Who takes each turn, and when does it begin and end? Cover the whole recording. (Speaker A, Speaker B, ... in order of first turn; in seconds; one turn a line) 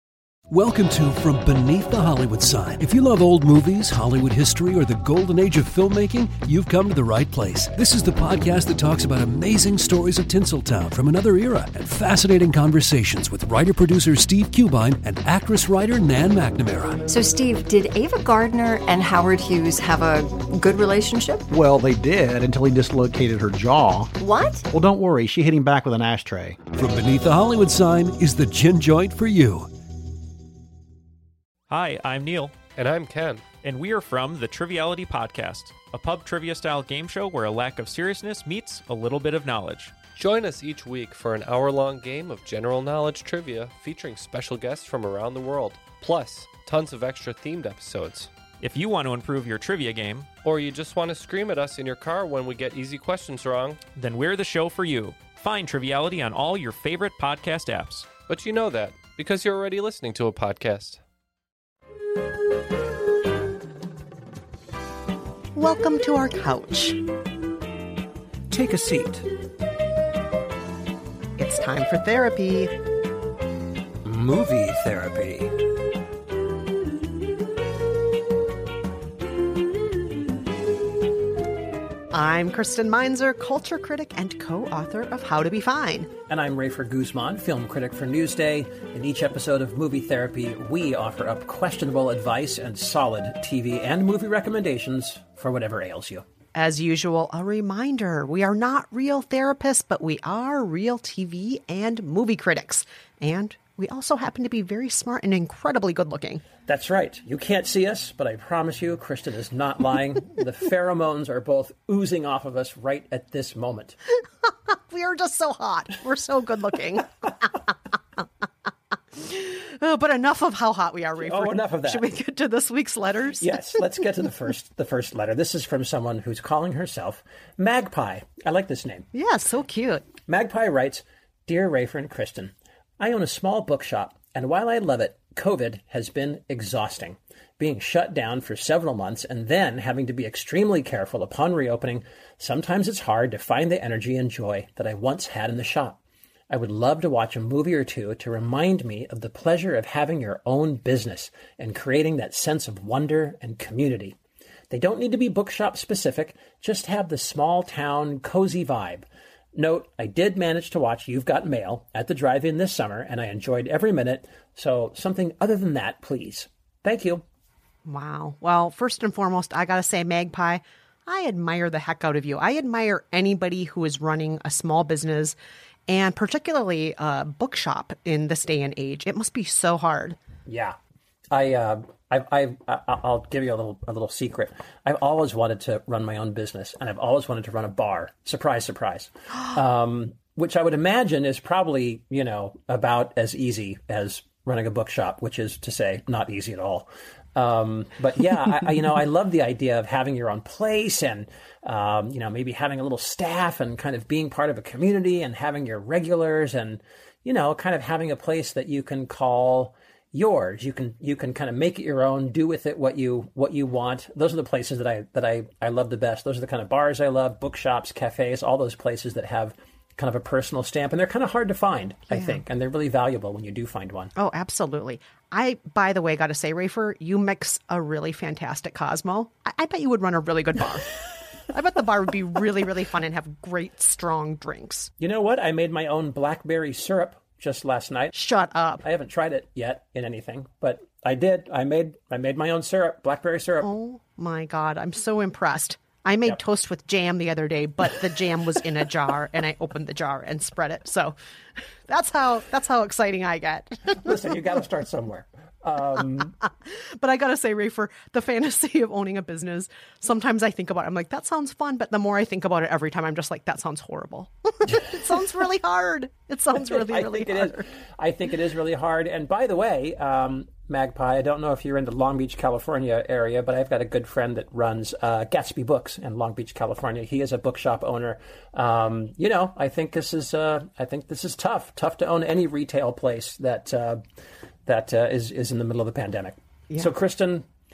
Speaker A: 0.5-17.0
Speaker B: 17.1-21.4
Speaker C: 21.5-24.1
Speaker C: 24.7-26.6
Speaker A: 26.8-29.7
Speaker D: 31.7-32.7
Speaker E: 32.7-33.5
Speaker D: 33.6-40.0
Speaker E: 40.1-48.3
Speaker D: 48.6-50.3
Speaker E: 50.4-53.8
Speaker D: 53.9-58.2
Speaker E: 58.2-61.0
Speaker F: 65.5-67.0
Speaker G: 68.5-69.2
Speaker F: 71.4-72.7
Speaker G: 74.0-75.5
Speaker F: 82.1-86.1
Speaker G: 86.3-96.2
Speaker F: 96.5-106.4
Speaker G: 106.7-114.0
Speaker F: 114.5-117.5
Speaker F: 119.2-123.6
Speaker G: 121.2-122.0
Speaker G: 123.4-129.1
Speaker F: 129.1-130.1
Speaker G: 130.3-154.2
Speaker G: 154.7-167.2
Speaker F: 167.8-175.3
Speaker F: 175.9-180.2
Speaker G: 180.4-180.8
Speaker G: 181.3-224.1
Speaker F: 222.1-222.4
Speaker F: 224.2-230.9
Speaker F: 231.5-234.9
Speaker G: 235.0-238.1
Speaker F: 238.1-238.8
Speaker G: 238.8-243.7
Speaker F: 243.6-251.2
Speaker F: 251.9-254.1
Speaker G: 253.9-256.3
Speaker F: 256.4-267.6
Speaker G: 266.5-284.0
Speaker G: 284.6-287.4